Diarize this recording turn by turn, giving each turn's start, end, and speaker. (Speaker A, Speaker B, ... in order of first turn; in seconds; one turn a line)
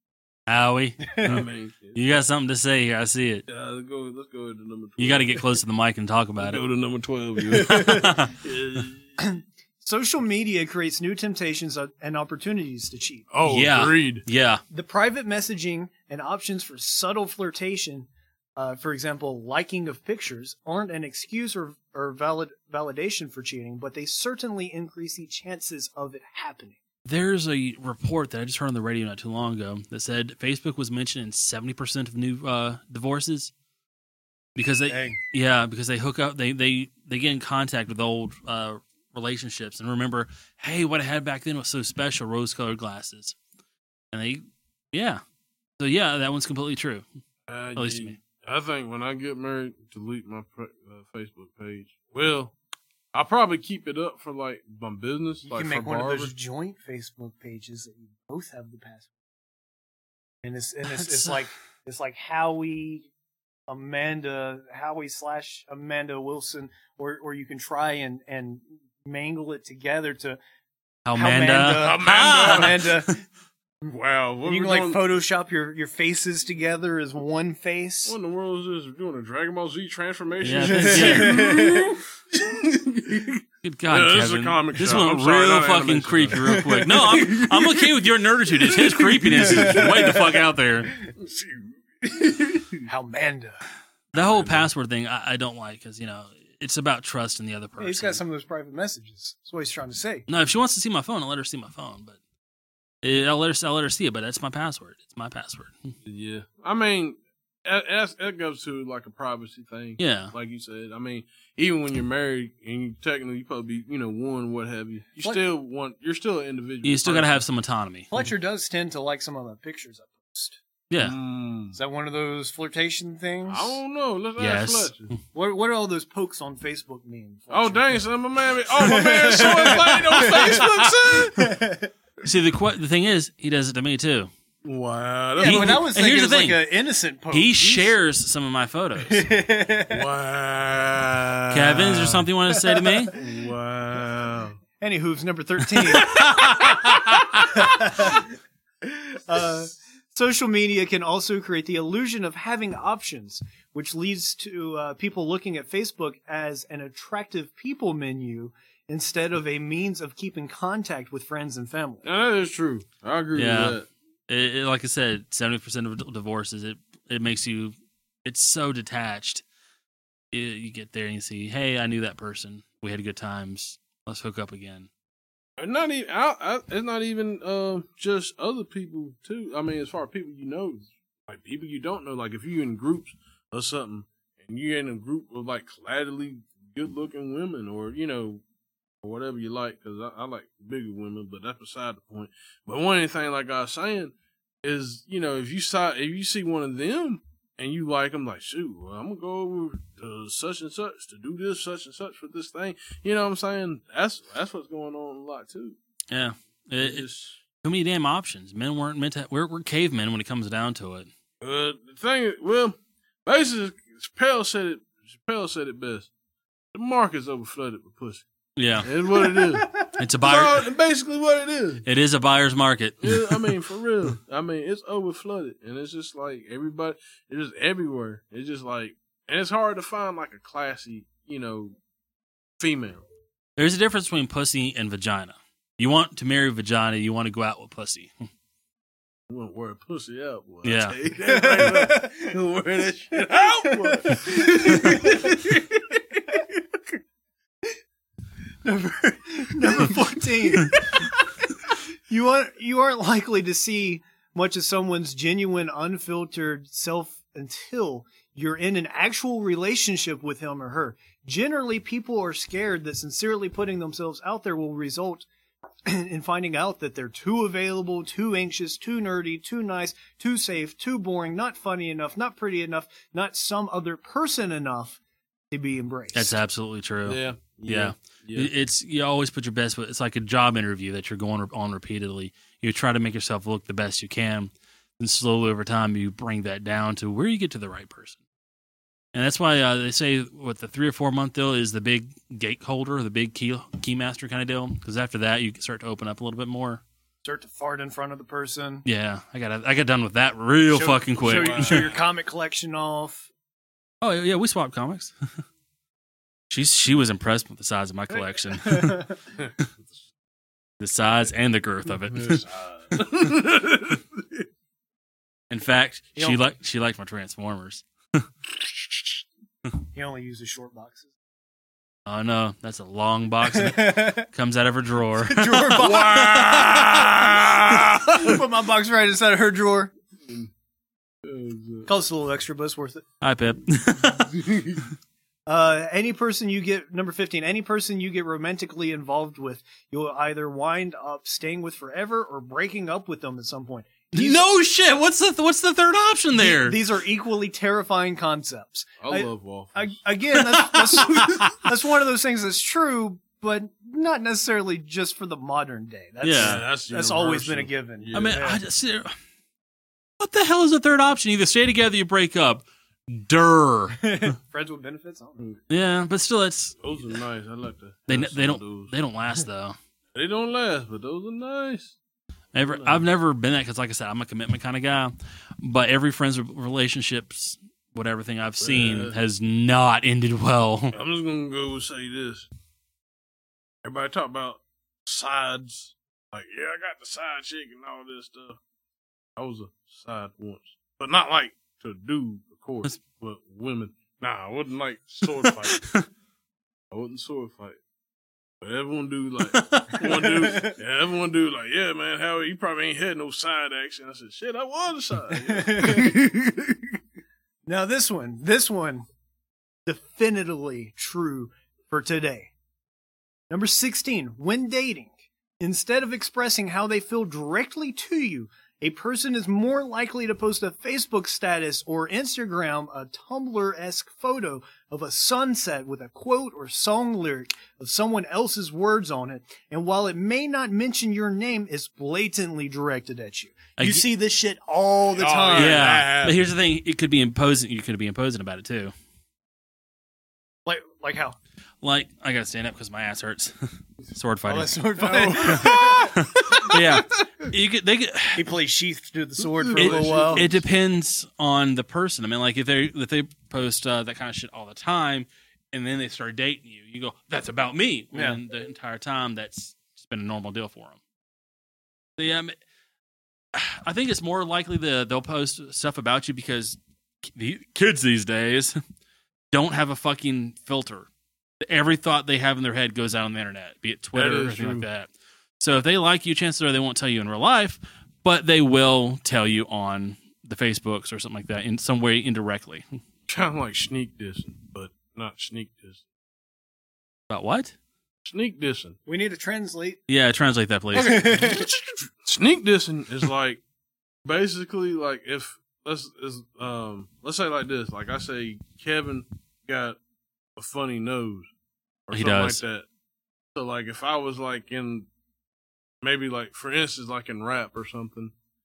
Speaker A: 0.5-3.4
Speaker B: 1.0-1.4
Speaker C: 1.2-2.0
Speaker C: 3.5-5.5
Speaker A: 5.0-6.6
Speaker C: 6.4-9.0
Speaker B: 7.6-8.2
Speaker A: 7.7-8.3
Speaker B: 9.2-13.3
Speaker C: 13.3-14.2
Speaker A: 13.4-14.6
Speaker B: 14.7-26.8
Speaker A: 27.1-33.5
Speaker A: 34.6-43.4
Speaker B: 34.9-35.2
Speaker A: 44.1-44.4
Speaker A: 44.9-45.2
Speaker A: 45.8-47.0
Speaker C: 47.5-52.5
Speaker A: 47.8-48.2
Speaker C: 53.1-56.3
Speaker B: 55.4-59.1
Speaker B: 60.4-63.1
Speaker A: 60.9-61.4
Speaker B: 63.7-70.4
Speaker A: 71.0-73.0
Speaker B: 71.1-73.2
Speaker C: 71.7-72.8
Speaker C: 73.9-75.0
Speaker B: 74.5-78.2
Speaker C: 78.1-87.5
Speaker A: 80.4-81.7
Speaker B: 80.6-82.0
Speaker A: 83.6-91.0
Speaker B: 87.0-87.5
Speaker C: 88.9-90.2
Speaker B: 89.2-90.3
Speaker C: 91.2-92.8
Speaker B: 92.8-93.6
Speaker A: 94.1-98.2
Speaker C: 94.2-94.7
Speaker B: 97.8-100.3
Speaker A: 100.3-102.2
Speaker A: 103.0-105.9
Speaker C: 106.1-117.4
Speaker A: 110.0-110.3
Speaker A: 116.8-118.1
Speaker B: 118.1-120.6
Speaker A: 120.9-121.2
Speaker C: 121.0-121.8
Speaker B: 121.7-123.8
Speaker C: 123.5-125.1
Speaker A: 124.4-124.9
Speaker B: 125.3-128.0
Speaker C: 127.5-131.5
Speaker B: 128.8-131.9
Speaker A: 132.2-134.3
Speaker C: 134.6-135.9
Speaker B: 135.4-137.9
Speaker A: 135.4-136.6
Speaker A: 137.3-139.3
Speaker B: 139.1-140.0
Speaker C: 139.9-142.2
Speaker A: 141.5-143.1
Speaker B: 142.5-143.2
Speaker C: 143.1-144.6
Speaker B: 144.8-148.3
Speaker A: 145.8-147.2
Speaker B: 148.8-162.1
Speaker C: 162.0-163.9
Speaker A: 163.4-163.8
Speaker A: 164.3-169.4
Speaker A: 170.3-174.9
Speaker C: 175.6-188.4
Speaker C: 189.0-205.8
Speaker A: 206.1-207.1
Speaker C: 206.8-207.4
Speaker A: 207.6-211.1
Speaker C: 211.4-216.1
Speaker C: 216.7-218.2
Speaker A: 218.6-218.9
Speaker C: 218.8-221.8
Speaker B: 219.6-219.9
Speaker A: 220.0-220.6
Speaker A: 221.8-223.6
Speaker C: 223.0-231.8
Speaker C: 232.6-233.0
Speaker A: 233.6-238.1
Speaker C: 239.3-245.6
Speaker A: 240.6-241.0
Speaker B: 241.3-242.3
Speaker B: 243.6-245.6
Speaker B: 248.6-251.1
Speaker B: 252.1-265.3
Speaker B: 265.9-275.0
Speaker B: 275.5-276.4
Speaker A: 276.1-288.2
Speaker C: 277.1-278.5
Speaker A: 289.1-296.8
Speaker B: 297.2-298.9
Speaker A: 298.9-301.9
Speaker B: 300.7-303.3
Speaker C: 301.2-302.0
Speaker A: 304.0-305.1
Speaker A: 306.5-309.1
Speaker B: 308.6-309.2
Speaker A: 310.8-312.4
Speaker C: 312.1-314.0
Speaker A: 315.5-318.3
Speaker B: 319.9-321.1
Speaker A: 322.1-325.9
Speaker B: 323.4-324.3
Speaker B: 325.2-329.9
Speaker C: 325.7-328.3
Speaker C: 331.2-331.9
Speaker B: 331.9-333.1
Speaker A: 333.2-334.4
Speaker C: 334.5-334.8
Speaker B: 335.5-344.5
Speaker A: 344.1-346.8
Speaker B: 346.3-358.6
Speaker C: 349.0-350.0
Speaker A: 350.3-351.7
Speaker A: 356.2-356.6
Speaker C: 356.3-358.4
Speaker A: 358.1-359.1
Speaker A: 360.2-364.3
Speaker B: 364.0-365.4
Speaker A: 365.7-366.8
Speaker C: 366.8-368.9
Speaker A: 368.1-369.8
Speaker C: 370.1-372.0
Speaker A: 372.6-381.0
Speaker C: 372.6-373.1
Speaker C: 378.6-379.2
Speaker C: 380.9-382.5
Speaker C: 383.8-388.6
Speaker C: 389.4-395.8
Speaker A: 395.2-396.1
Speaker C: 396.9-397.8
Speaker C: 398.6-406.8
Speaker A: 399.5-400.2
Speaker B: 400.1-400.8
Speaker B: 405.3-406.2
Speaker B: 407.7-409.1
Speaker B: 409.9-412.5
Speaker B: 413.5-435.9
Speaker A: 433.8-434.1
Speaker C: 435.1-436.5
Speaker A: 435.6-438.9
Speaker B: 440.7-441.4
Speaker A: 441.8-443.6
Speaker A: 444.1-444.7
Speaker B: 444.5-446.8
Speaker C: 445.0-447.0
Speaker A: 445.4-448.5
Speaker B: 448.4-450.6
Speaker C: 449.4-450.6
Speaker A: 449.8-461.0
Speaker B: 458.1-458.4
Speaker A: 462.2-462.6
Speaker A: 463.5-468.8
Speaker A: 469.5-471.1
Speaker A: 471.6-483.0
Speaker C: 474.1-474.9
Speaker C: 483.3-486.0
Speaker A: 487.3-487.7
Speaker C: 488.3-489.0
Speaker B: 489.1-490.0
Speaker A: 490.1-491.5
Speaker B: 490.9-491.7
Speaker C: 491.2-493.6
Speaker C: 494.2-500.0
Speaker C: 500.6-501.5
Speaker C: 502.1-502.9
Speaker A: 502.1-502.6
Speaker C: 503.6-505.1
Speaker C: 506.0-508.3